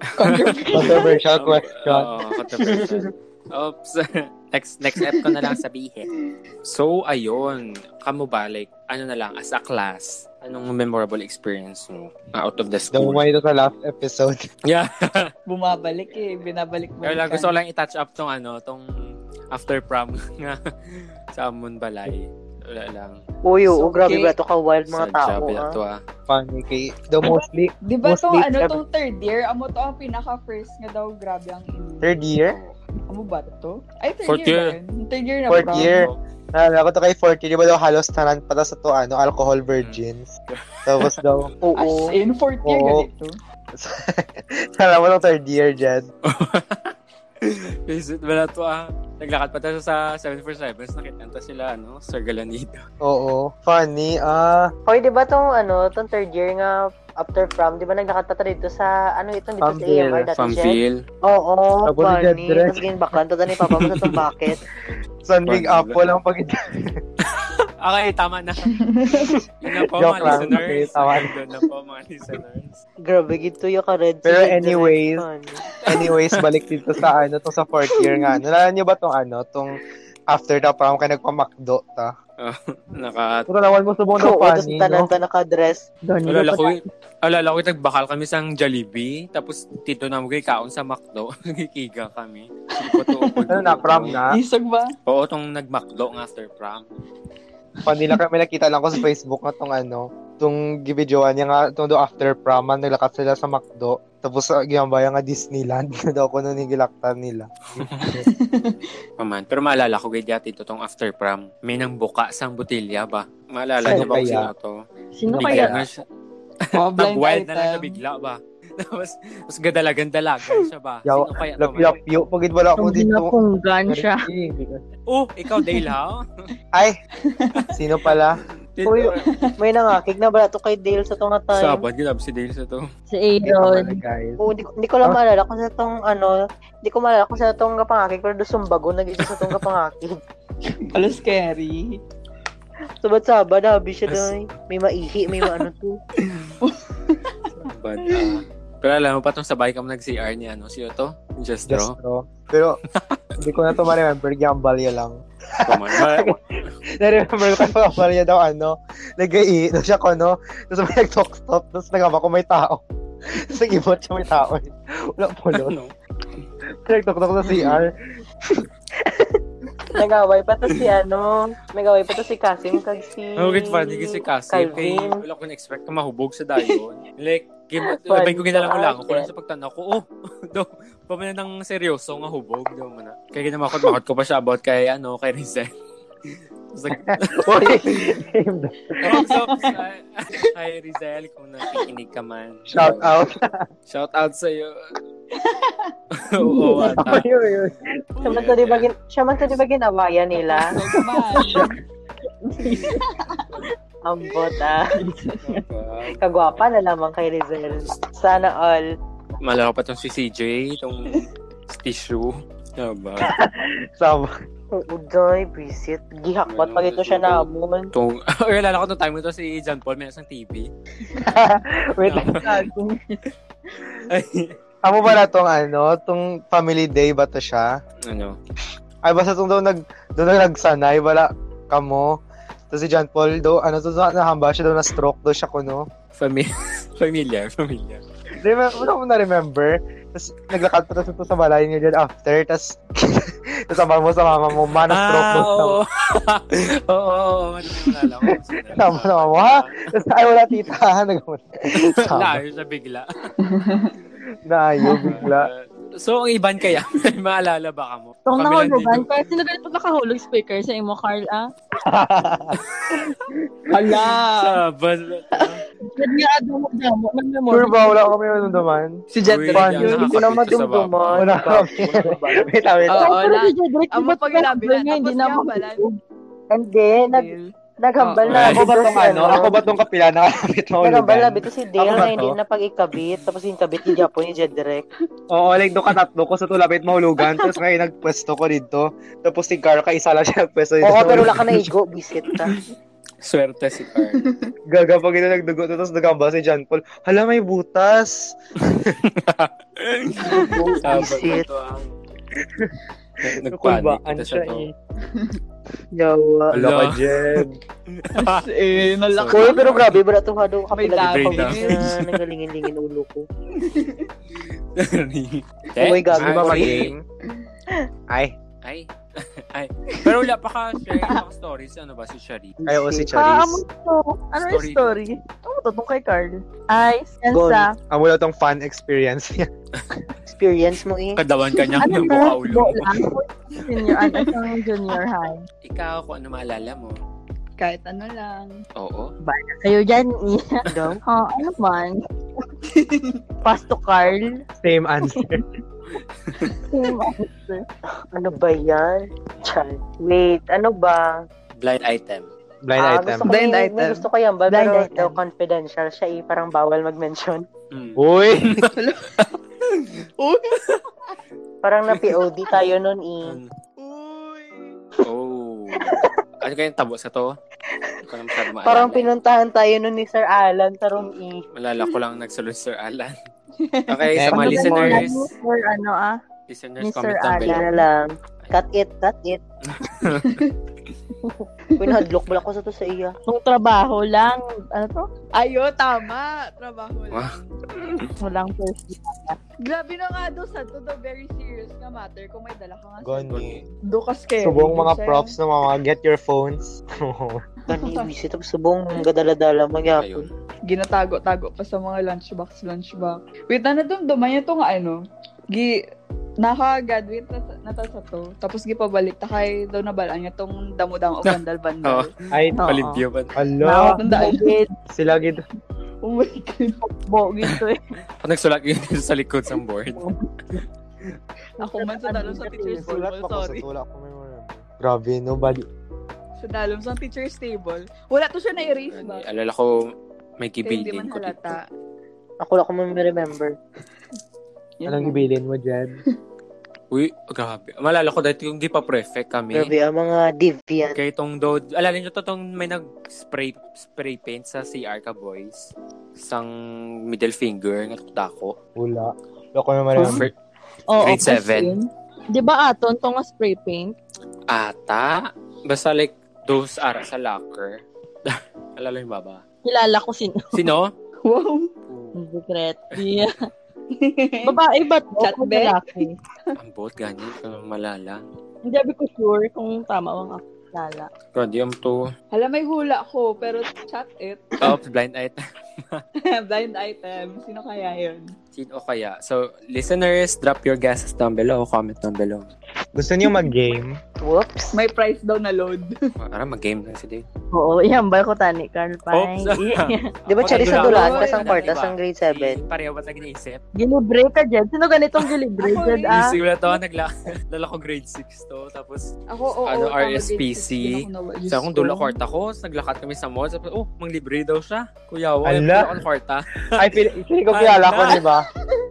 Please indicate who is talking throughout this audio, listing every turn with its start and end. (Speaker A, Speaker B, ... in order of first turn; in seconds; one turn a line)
Speaker A: 0.2-1.2
Speaker B: 0.7-6.1
Speaker C: 0.8-2.1
Speaker D: 2.6-3.1
Speaker B: 6.6-13.3
Speaker C: 12.9-14.4
Speaker B: 14.7-15.3
Speaker A: 15.5-17.5
Speaker B: 17.0-18.9
Speaker B: 19.5-23.2
Speaker D: 23.5-25.7
Speaker A: 23.7-24.3
Speaker B: 24.9-26.0
Speaker C: 26.3-28.8
Speaker A: 27.3-32.1
Speaker C: 32.0-32.6
Speaker B: 32.5-32.8
Speaker A: 33.1-36.0
Speaker B: 34.2-34.8
Speaker C: 35.5-40.3
Speaker B: 35.7-36.1
Speaker B: 39.8-41.2
Speaker C: 40.9-41.5
Speaker D: 41.6-42.1
Speaker A: 41.8-43.3
Speaker C: 42.6-43.1
Speaker C: 43.8-46.1
Speaker B: 46.2-52.8
Speaker C: 53.0-54.7
Speaker D: 54.9-64.6
Speaker C: 59.6-60.3
Speaker B: 60.4-61.0
Speaker C: 61.9-62.8
Speaker B: 63.7-64.2
Speaker C: 65.2-67.0
Speaker B: 65.5-66.0
Speaker B: 67.2-68.7
Speaker A: 68.7-69.4
Speaker B: 69.2-72.8
Speaker C: 70.0-71.3
Speaker D: 73.1-75.6
Speaker C: 74.2-75.2
Speaker C: 75.8-79.8
Speaker B: 76.0-76.5
Speaker C: 80.3-82.1
Speaker B: 82.4-83.5
Speaker C: 83.5-85.1
Speaker D: 84.2-85.8
Speaker E: 86.0-86.8
Speaker B: 86.3-94.2
Speaker A: 92.8-94.9
Speaker C: 93.5-94.3
Speaker B: 95.1-96.9
Speaker C: 97.8-108.2
Speaker B: 107.8-108.2
Speaker A: 108.2-108.9
Speaker B: 109.2-114.8
Speaker C: 113.8-114.5
Speaker D: 113.9-114.3
Speaker E: 115.2-115.8
Speaker C: 115.3-115.9
Speaker B: 115.3-116.0
Speaker B: 116.7-122.0
Speaker A: 116.7-118.0
Speaker C: 121.1-123.3
Speaker E: 122.8-124.3
Speaker C: 123.9-124.8
Speaker B: 125.1-126.2
Speaker A: 125.6-125.9
Speaker A: 127.3-127.7
Speaker C: 127.7-128.4
Speaker B: 128.8-129.2
Speaker D: 128.8-131.8
Speaker A: 129.2-129.6
Speaker B: 131.5-132.8
Speaker E: 133.1-134.0
Speaker C: 133.4-134.4
Speaker D: 134.4-140.2
Speaker A: 140.7-142.0
Speaker D: 143.0-146.0
Speaker B: 144.1-144.3
Speaker A: 146.6-147.4
Speaker B: 147.7-151.9
Speaker A: 148.1-148.3
Speaker C: 151.7-152.8
Speaker B: 152.9-153.4
Speaker C: 153.4-156.4
Speaker B: 155.6-156.4
Speaker C: 157.0-165.8
Speaker B: 165.5-165.9
Speaker C: 166.8-167.9
Speaker D: 169.0-169.4
Speaker D: 169.9-175.2
Speaker B: 173.4-185.7
Speaker D: 178.0-179.3
Speaker B: 186.3-187.7
Speaker C: 186.9-189.2
Speaker B: 189.0-193.2
Speaker A: 189.1-189.7
Speaker C: 192.7-193.7
Speaker B: 193.9-194.8
Speaker A: 195.3-195.9
Speaker B: 196.1-197.3
Speaker A: 196.5-196.9
Speaker C: 196.8-197.9
Speaker B: 198.2-198.9
Speaker D: 198.2-200.8
Speaker A: 200.3-201.7
Speaker C: 201.4-201.7
Speaker E: 202.6-203.0
Speaker B: 202.7-202.9
Speaker A: 202.7-203.5
Speaker D: 204.0-204.9
Speaker A: 204.9-205.4
Speaker B: 205.4-206.2
Speaker D: 206.2-208.9
Speaker B: 209.4-213.3
Speaker C: 213.2-214.3
Speaker D: 214.7-217.9
Speaker B: 216.5-220.7
Speaker C: 221.2-222.7
Speaker B: 222.0-222.6
Speaker E: 222.4-223.1
Speaker B: 223.9-224.5
Speaker C: 224.8-227.7
Speaker B: 228.1-228.4
Speaker C: 229.0-232.2
Speaker C: 232.7-235.9
Speaker B: 236.2-238.0
Speaker C: 238.4-245.8
Speaker B: 244.9-249.9
Speaker C: 248.3-252.4
Speaker B: 251.7-253.1
Speaker A: 253.4-254.0
Speaker C: 254.4-255.5
Speaker A: 254.8-255.2
Speaker B: 255.0-259.1
Speaker E: 258.3-261.5
Speaker C: 261.9-262.6
Speaker B: 262.8-263.1
Speaker C: 263.3-264.0
Speaker A: 263.7-264.6
Speaker B: 264.4-265.6
Speaker E: 265.9-268.0
Speaker C: 267.5-269.0
Speaker A: 269.1-270.2
Speaker B: 269.2-272.9
Speaker C: 269.6-269.9
Speaker D: 270.0-272.2
Speaker C: 271.1-273.2
Speaker A: 272.9-275.9
Speaker E: 272.9-276.0
Speaker D: 276.5-276.9
Speaker A: 276.9-278.3
Speaker D: 277.8-279.6
Speaker B: 278.3-278.7
Speaker C: 278.3-282.4
Speaker D: 280.8-284.9
Speaker C: 285.3-291.7
Speaker D: 290.8-292.6
Speaker B: 293.2-294.2
Speaker A: 294.2-294.5
Speaker C: 294.7-299.0
Speaker B: 299.0-301.9
Speaker D: 300.2-301.5
Speaker A: 300.2-300.7
Speaker C: 302.4-304.7
Speaker B: 303.2-304.7
Speaker A: 305.1-305.4
Speaker D: 305.9-306.5
Speaker C: 306.5-307.6
Speaker B: 306.5-308.5
Speaker A: 308.1-309.6
Speaker B: 309.1-310.0
Speaker D: 309.3-313.3
Speaker A: 310.8-311.9
Speaker B: 311.0-312.2
Speaker A: 313.6-314.1
Speaker B: 314.8-316.9
Speaker D: 315.8-316.8
Speaker C: 316.1-317.0
Speaker B: 318.6-322.6
Speaker D: 322.6-323.1
Speaker C: 322.7-323.6
Speaker E: 323.1-327.8
Speaker B: 324.4-325.0
Speaker D: 327.3-327.6
Speaker C: 327.9-329.5
Speaker D: 330.3-331.2
Speaker B: 331.2-333.1
Speaker E: 331.8-335.4
Speaker D: 331.9-332.3
Speaker A: 334.1-334.4
Speaker B: 335.6-337.0
Speaker A: 337.6-338.6
Speaker B: 338.8-339.1
Speaker E: 339.2-342.0
Speaker D: 340.7-341.0
Speaker A: 342.7-343.2
Speaker E: 343.4-344.4
Speaker C: 344.6-345.4
Speaker E: 345.1-345.4
Speaker E: 346.7-347.6
Speaker D: 348.1-351.2
Speaker B: 349.4-349.6
Speaker B: 351.6-352.3
Speaker C: 352.6-353.3
Speaker D: 352.8-357.5
Speaker A: 353.3-354.1
Speaker E: 354.5-355.1
Speaker A: 354.6-355.0
Speaker B: 357.7-358.7
Speaker C: 358.0-358.7
Speaker A: 358.7-359.3
Speaker A: 360.2-360.8
Speaker D: 361.6-363.4
Speaker B: 363.2-363.5
Speaker A: 363.8-364.8
Speaker B: 365.0-367.4
Speaker D: 365.8-366.1
Speaker D: 367.9-371.4
Speaker B: 368.1-369.1
Speaker B: 371.6-373.2
Speaker A: 373.6-374.1
Speaker B: 373.9-375.3
Speaker C: 374.2-375.1
Speaker E: 374.3-376.2
Speaker B: 376.5-377.8
Speaker E: 376.8-377.8
Speaker D: 377.4-379.4
Speaker B: 379.6-380.4
Speaker A: 380.1-380.6
Speaker A: 381.8-382.0
Speaker D: 381.8-383.2
Speaker E: 383.3-385.1
Speaker A: 385.4-387.6
Speaker B: 387.1-388.1
Speaker E: 388.2-389.4
Speaker A: 389.6-395.3
Speaker C: 393.0-393.6
Speaker C: 394.4-397.4
Speaker D: 397.7-400.3
Speaker A: 397.7-398.1
Speaker B: 400.0-400.4
Speaker A: 400.7-405.8
Speaker A: 406.4-412.1
Speaker B: 411.2-413.4
Speaker C: 412.3-412.7
Speaker E: 412.5-413.0
Speaker C: 413.4-414.0
Speaker E: 413.6-414.7
Speaker A: 414.0-414.6
Speaker C: 414.9-415.4
Speaker A: 416.0-416.8
Speaker E: 416.8-417.9
Speaker B: 418.2-421.1
Speaker A: 421.6-423.6
Speaker E: 421.6-422.8
Speaker C: 422.8-425.7
Speaker A: 426.4-429.2
Speaker B: 428.9-429.8
Speaker B: 430.4-431.6
Speaker A: 430.6-431.6
Speaker D: 432.4-433.6
Speaker A: 434.8-435.3
Speaker C: 434.9-435.9
Speaker B: 436.9-439.7
Speaker D: 439.5-441.0
Speaker B: 440.9-446.5
Speaker B: 447.1-448.6
Speaker C: 448.8-450.3
Speaker B: 450.1-450.3
Speaker E: 450.9-453.9
Speaker B: 451.0-451.8
Speaker B: 454.5-459.4
Speaker E: 459.6-460.7
Speaker B: 460.5-460.9
Speaker A: 461.2-461.7
Speaker B: 461.9-462.2
Speaker E: 462.1-463.5
Speaker A: 463.9-464.6
Speaker E: 464.4-466.1
Speaker A: 465.2-466.1
Speaker B: 466.6-468.2
Speaker E: 468.7-471.1
Speaker B: 471.3-472.1
Speaker A: 472.3-474.7
Speaker B: 474.6-476.0
Speaker A: 476.2-478.3
Speaker B: 478.6-482.5
Speaker C: 482.9-484.0
Speaker D: 484.2-484.8
Speaker A: 484.7-486.0
Speaker B: 486.2-487.2
Speaker E: 487.5-490.1
Speaker B: 489.1-493.6
Speaker D: 490.3-492.6
Speaker A: 490.5-491.8
Speaker E: 493.8-496.4
Speaker A: 495.6-496.8
Speaker B: 496.1-499.1
Speaker A: 499.3-502.1
Speaker B: 499.7-508.2
Speaker C: 505.4-506.0
Speaker C: 506.8-508.5